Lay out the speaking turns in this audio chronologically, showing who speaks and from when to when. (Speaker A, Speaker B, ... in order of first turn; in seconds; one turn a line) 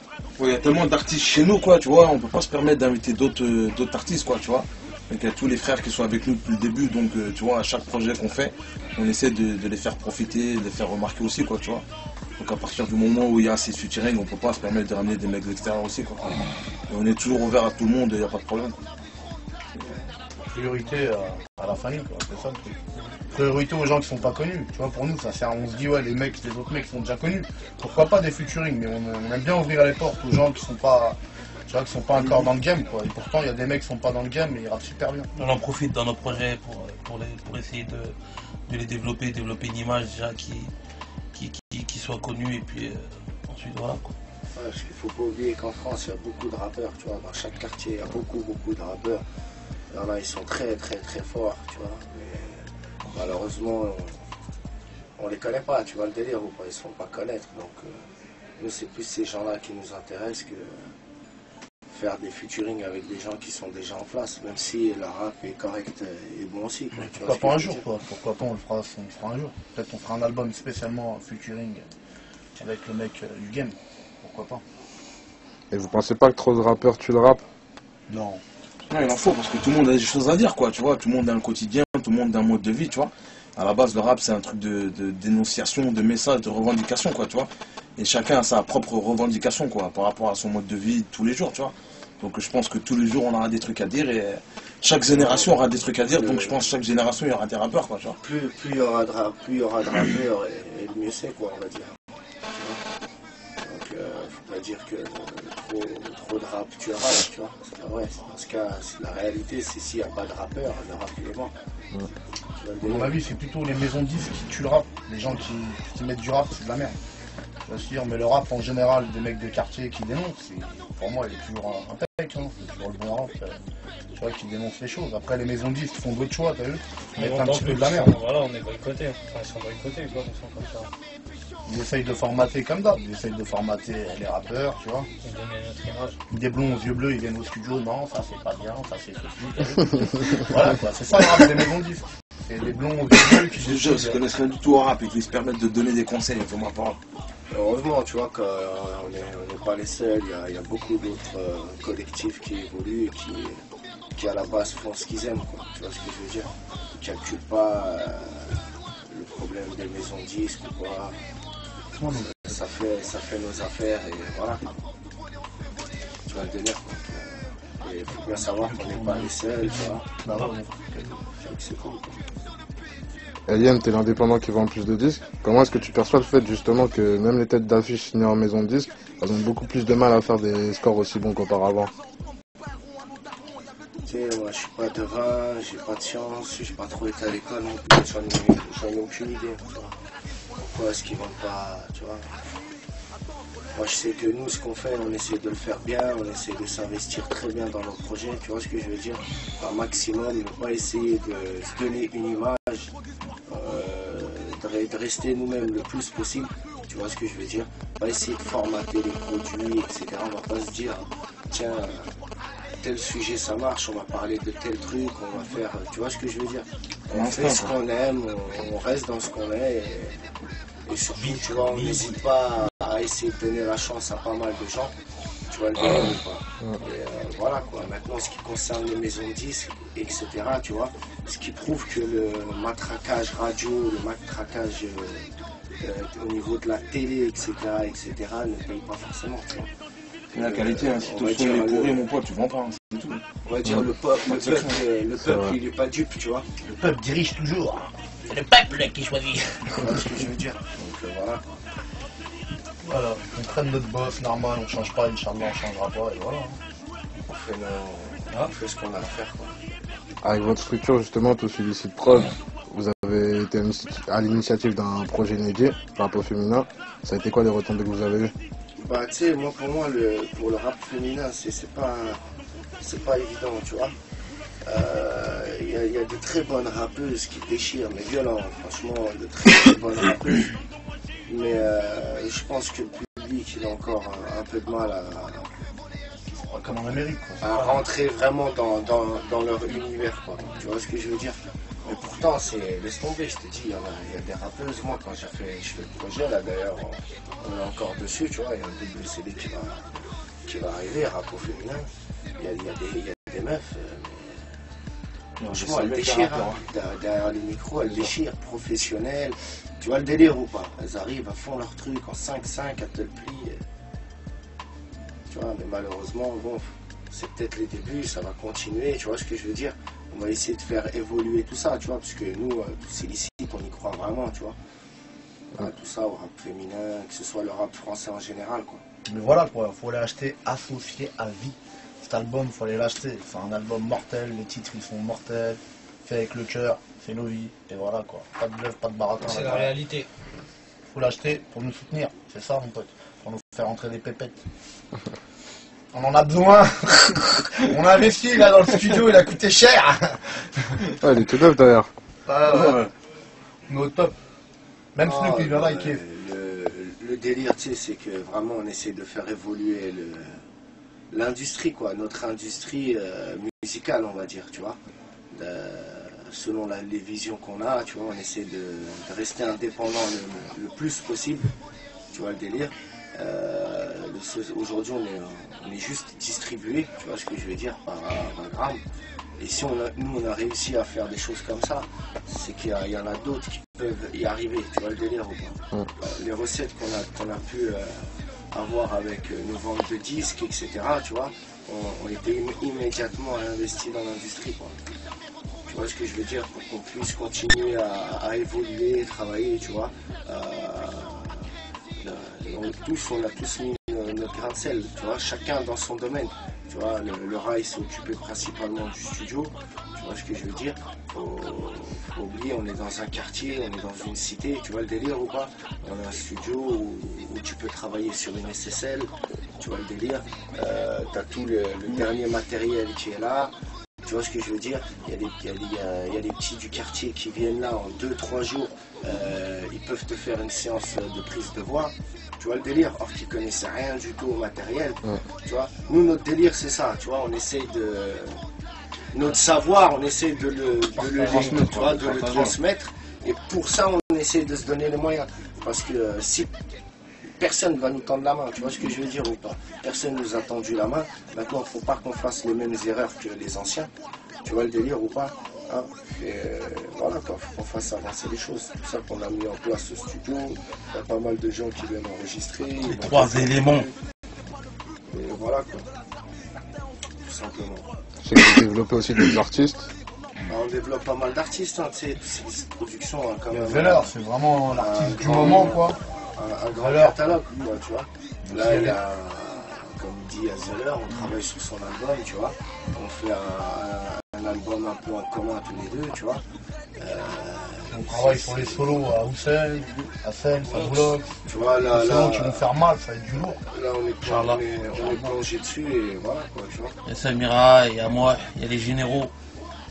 Speaker A: 0.4-11.8
Speaker A: 12.4-18.8
Speaker A: 19.8-20.0
Speaker B: 20.5-22.8
Speaker B: 23.3-35.3
Speaker C: 35.3-38.1
Speaker C: 38.7-40.7
Speaker C: 41.3-44.1
Speaker D: 44.5-49.2
Speaker D: 49.9-54.2
Speaker D: 55.2-58.0
Speaker D: 58.6-60.9
Speaker D: 61.9-67.8
Speaker B: 66.9-71.8
Speaker B: 72.5-74.6
Speaker E: 75.7-77.4
Speaker B: 78.1-78.4
Speaker A: 78.9-98.2
Speaker D: 95.1-96.6
Speaker D: 98.2-101.9
Speaker D: 102.5-102.8
Speaker D: 103.6-111.5
Speaker D: 112.6-113.2
Speaker B: 112.8-117.0
Speaker B: 117.7-123.6
Speaker B: 124.1-128.2
Speaker F: 127.1-130.9
Speaker B: 131.6-135.1
Speaker F: 135.2-136.2
Speaker B: 136.3-144.2
Speaker A: 143.3-147.0
Speaker D: 147.5-153.6
Speaker D: 154.2-161.2
Speaker B: 161.9-162.5
Speaker D: 162.1-164.6
Speaker D: 166.2-170.1
Speaker B: 168.5-171.2
Speaker D: 171.4-172.2
Speaker E: 173.5-181.9
Speaker D: 184.0-190.0
Speaker D: 190.6-192.3
Speaker D: 193.7-202.9
Speaker D: 203.5-212.2
Speaker D: 212.8-220.2
Speaker A: 217.1-217.7
Speaker D: 220.8-224.9
Speaker C: 221.2-222.2
Speaker D: 225.5-239.7
Speaker D: 240.3-242.0
Speaker A: 240.3-244.8
Speaker D: 243.4-246.5
Speaker E: 245.2-245.5
Speaker B: 246.6-249.9
Speaker D: 249.7-251.5
Speaker B: 252.8-256.6
Speaker D: 257.2-259.6
Speaker E: 260.2-268.3
Speaker D: 268.8-272.2
Speaker D: 272.8-273.9
Speaker D: 274.6-280.6
Speaker D: 281.2-285.5
Speaker B: 286.5-287.8
Speaker D: 287.4-299.9
Speaker D: 300.4-304.6
Speaker A: 305.4-306.6
Speaker D: 305.5-313.6
Speaker D: 315.3-324.6
Speaker D: 325.5-328.8
Speaker B: 329.1-339.8
Speaker F: 339.2-340.1
Speaker B: 340.9-344.4
Speaker B: 345.9-350.9
Speaker E: 351.0-351.9
Speaker B: 352.2-352.9
Speaker A: 352.5-352.9
Speaker B: 353.7-354.1
Speaker B: 354.9-356.0
Speaker D: 355.0-360.4
Speaker D: 361.1-364.8
Speaker D: 365.3-371.5
Speaker D: 372.1-378.8
Speaker D: 379.4-394.7
Speaker D: 395.7-423.5
Speaker D: 424.0-438.4
Speaker D: 439.1-446.5
Speaker A: 441.0-442.6
Speaker D: 447.4-453.9
Speaker D: 454.4-463.9
Speaker C: 462.8-463.9
Speaker D: 465.1-465.9
Speaker D: 467.2-467.9
Speaker E: 468.2-469.9
Speaker D: 470.5-474.1
Speaker B: 473.5-476.0
Speaker D: 474.7-486.4
Speaker B: 476.8-477.2
Speaker B: 478.4-479.0
Speaker D: 487.0-489.1
Speaker B: 487.9-493.6
Speaker C: 490.7-491.0
Speaker D: 491.4-492.6
Speaker D: 493.4-496.9
Speaker C: 494.2-494.6
Speaker B: 494.9-495.3
Speaker C: 497.0-499.3